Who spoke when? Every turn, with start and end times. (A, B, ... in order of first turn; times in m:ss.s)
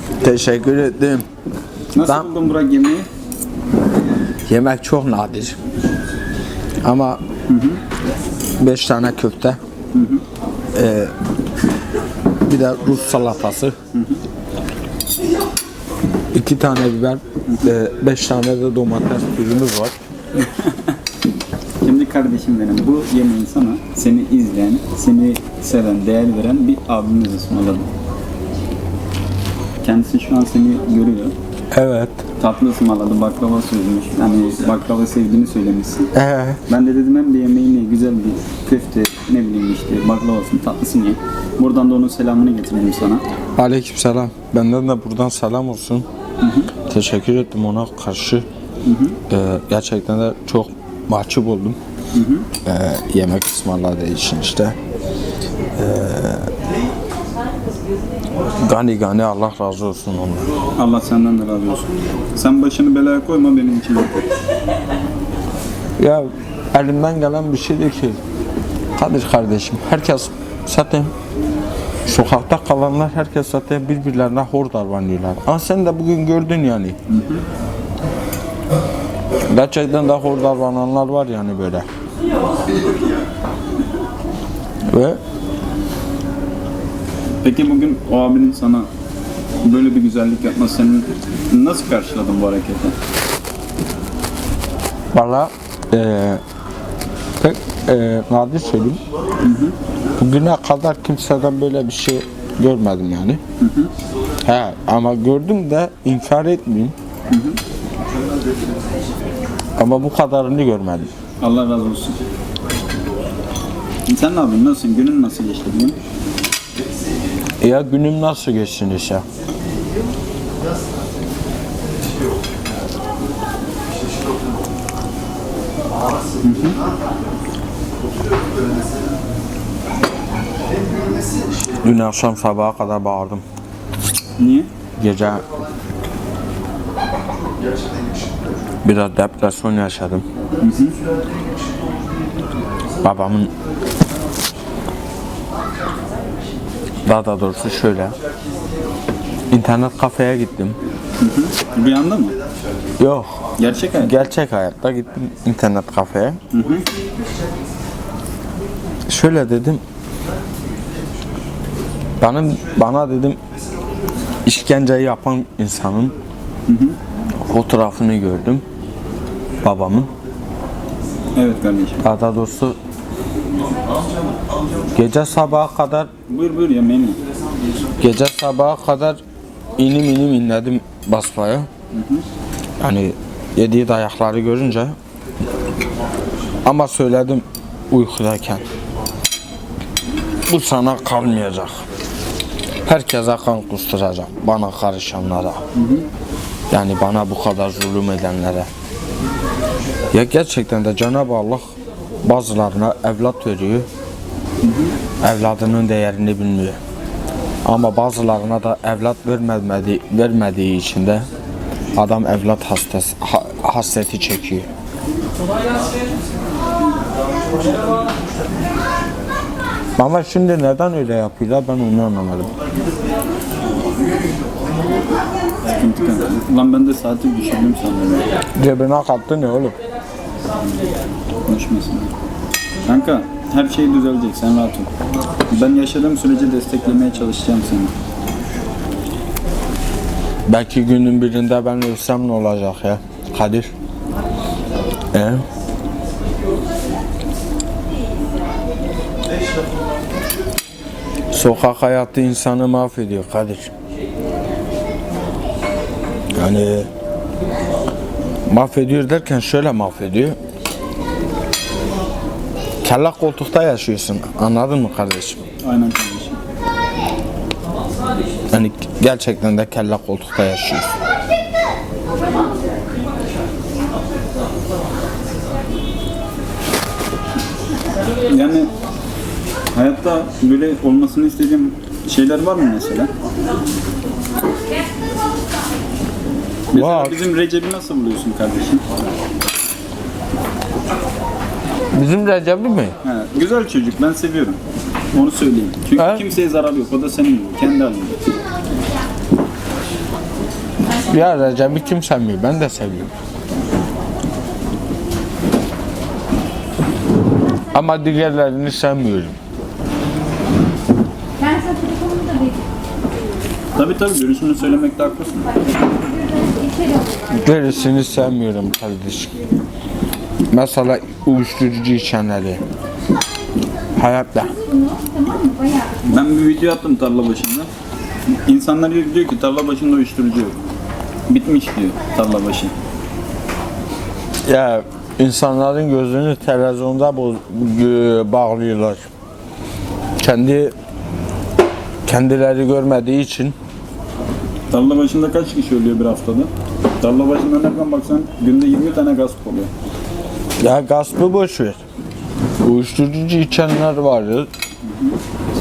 0:00.2-0:01.2 A
0:01.9-0:03.1 B
0:02.0-0:02.3 A
0:04.5-0:05.6 A
0:06.8-0:07.2 A
0:07.5-0:07.8 B
0:08.6-0:09.6 A
0:09.9-0:10.2 B
0:10.8-0:11.1 A
0:12.5-0:13.7 A
0:13.9-0:14.2 B
0:16.3-0:20.0 A
0:17.5-0:17.7 B
0:20.4-0:21.0 B
0:21.8-0:27.9 B
0:29.8-0:31.4 B
0:31.7-0:32.2 A
0:32.4-0:36.1 B
0:36.2-0:36.6 A
0:36.7-0:43.2 B
0:43.6-0:46.1 A
0:46.4-0:46.7 B
0:46.9-0:48.4 A
0:48.8-0:49.2 B
0:49.3-0:51.8 A
0:52.1-0:52.5 B
0:52.6-0:54.8 A
0:55.8-0:56.5 A
0:58.7-1:00.5 A
1:00.8-1:04.2 B
1:06.0-1:08.2 A
1:09.0-1:11.1 A
1:12.1-1:17.0 A
1:17.1-1:17.4 B
1:19.5-1:21.9 A
1:24.9-1:25.2 A
1:27.4-1:28.9 B
1:29.6-1:33.0 B
1:35.1-1:36.4 A
1:37.4-1:39.0 A
1:39.4-1:39.8 B
1:40.2-1:43.4 A
1:43.6-1:43.9 B
1:44.4-1:46.9 A
1:47.3-1:47.6 B
1:49.8-1:51.1 A
1:51.4-1:52.2 B
1:54.1-1:56.0 B
1:57.6-1:59.2 A
2:06.4-2:06.8 B
2:11.8-2:13.4 A
2:14.4-2:14.7 B
2:15.0-2:15.5 A
2:18.8-2:20.2 A
2:20.6-2:21.0 B
2:23.0-2:23.5 A
2:27.1-2:28.2 A
2:29.5-2:30.8 A
2:31.2-2:32.4 B
2:33.0-2:33.3 A
2:33.6-2:34.1 B
2:33.9-2:36.4 A
2:36.5-2:36.9 B
2:39.1-2:39.8 A
2:42.2-2:43.4 A
2:44.5-2:46.2 A
2:46.7-2:47.0 B
2:47.5-2:48.6 A
2:49.6-2:50.1 A
2:51.4-2:52.0 B
2:52.0-2:52.8 A
2:55.0-2:56.1 A
2:56.3-2:57.2 B
2:58.0-2:59.2 A
2:59.8-3:01.7 A
3:01.9-3:02.2 B
3:02.8-3:05.0 A
3:06.6-3:08.6 A
3:10.5-3:11.8 A
3:12.9-3:15.6 A
3:15.7-3:16.1 B
3:16.7-3:18.7 A
3:20.1-3:23.9 A
3:24.6-3:25.0 B
3:25.2-3:26.8 A
3:27.6-3:31.3 A
3:32.0-3:34.7 A
3:40.0-3:42.5 A
3:45.6-3:48.3 B
3:48.6-3:49.8 A
3:51.5-3:52.1 B
3:52.9-3:54.9 B
3:55.5-3:57.9 B
4:00.5-4:03.7 A
4:05.1-4:05.4 A
4:11.3-4:13.7 A
4:16.4-4:16.9 A
4:18.5-4:20.4 A
4:22.8-4:25.4 A
4:25.6-4:26.4 B
4:28.5-4:31.0 A
4:38.3-4:38.7 B
4:39.7-4:43.1 B
4:46.7-4:49.0 B
4:46.7-4:47.2 A
4:51.9-4:53.0 A
4:53.0-4:54.6 B
4:55.1-4:58.2 B
4:56.0-4:56.2 A
5:00.9-5:03.1 A
5:07.7-5:09.4 A
5:11.4-5:12.6 C
5:13.8-5:15.6 B
5:16.4-5:17.2 C
5:17.3-5:19.4 A
5:20.5-5:22.6 A
5:24.0-5:24.6 A
5:25.0-5:25.9 C
5:26.0-5:27.7 B
5:28.5-5:30.6 B
5:31.3-5:32.7 B
5:34.4-5:39.1 A
5:40.2-5:40.7 A
5:42.1-5:43.6 A
5:44.7-5:49.7 B
5:50.6-5:51.8 A
5:52.6-5:54.5 A
5:54.8-5:55.2 B